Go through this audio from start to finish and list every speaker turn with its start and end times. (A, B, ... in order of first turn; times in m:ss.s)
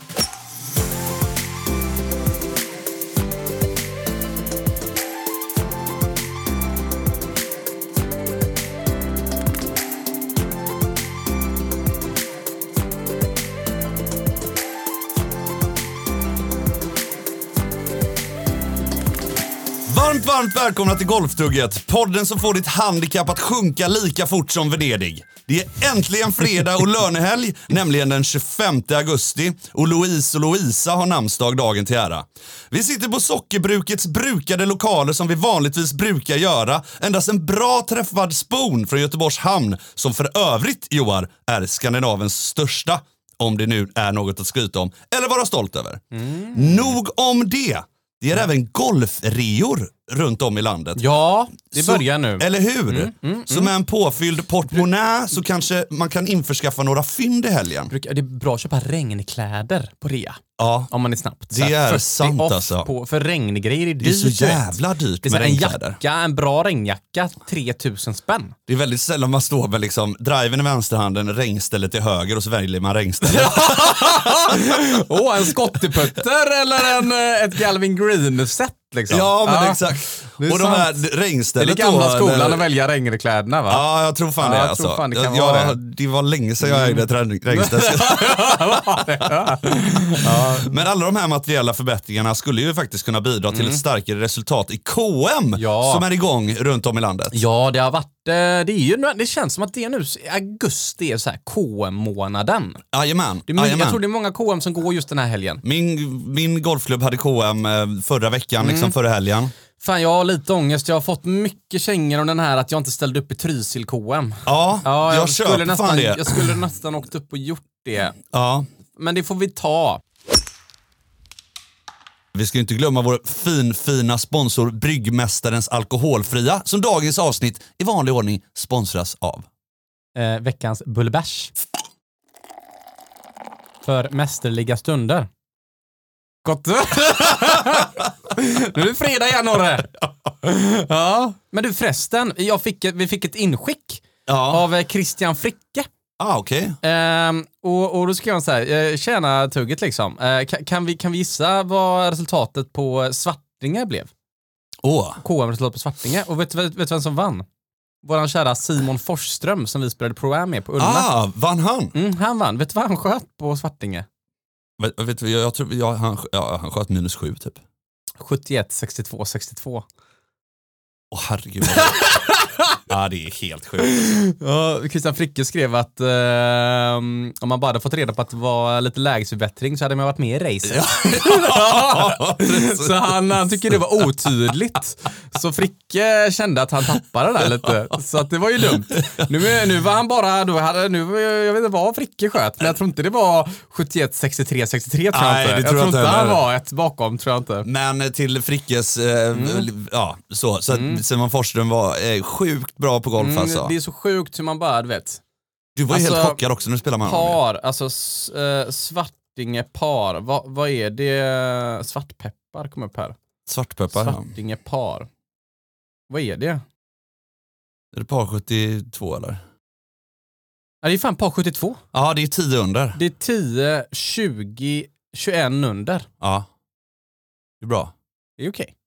0:19.8-0:46.0 A
0:46.1-0:47.0 B
0:46.5-0:51.1 A
0:51.0-0:53.7 B
0:51.7-0:57.9 A
0:57.9-1:08.6 B
1:00.6-1:00.9 A
1:01.5-1:02.9 A
1:04.0-1:06.0 A
1:08.7-1:15.0 A
1:13.2-1:21.0 B
1:19.1-1:22.6 A
1:21.6-1:23.8 B
1:23.7-1:29.6 A
1:24.4-1:25.8 B
1:26.6-1:30.7 B
1:30.2-1:37.4 A
1:33.5-1:33.8 B
1:35.5-1:36.0 B
1:37.3-1:42.8 B
1:42.9-1:44.0 A
1:43.5-1:45.6 B
1:45.6-1:49.5 A
1:48.6-1:48.9 B
1:49.8-1:58.2 B
1:54.4-1:56.5 A
1:58.2-1:58.7 A
1:59.0-2:00.0 B
2:02.3-2:09.5 A
2:10.1-2:11.5 B
2:13.8-2:15.3 B
2:16.4-2:25.9 B
2:24.3-2:24.6 A
2:26.2-2:26.8 A
2:26.8-2:34.1 B
2:34.8-2:35.2 A
2:35.2-2:37.4 B
2:38.0-2:41.1 B
2:40.8-2:41.9 A
2:41.9-2:44.0 B
2:44.8-2:47.6 A
2:48.2-2:49.8 B
2:51.1-2:52.1 A
2:51.7-2:52.8 B
2:52.9-2:53.9 A
2:53.8-3:17.7 B
3:00.6-3:04.1 A
3:15.1-3:16.4 A
3:17.6-3:23.7 A
3:19.3-3:19.7 B
3:20.7-3:21.0 B
3:23.2-3:25.2 B
3:25.8-3:27.4 A
3:25.9-3:26.4 B
3:27.0-3:33.2 B
3:33.5-3:34.3 A
3:33.9-3:35.1 B
3:36.1-3:36.6 B
3:37.9-3:39.4 A
3:40.8-3:41.8 B
3:41.9-3:43.0 A
3:42.9-3:46.1 B
3:46.2-3:46.5 A
3:47.6-3:47.9 A
3:48.4-3:48.7 B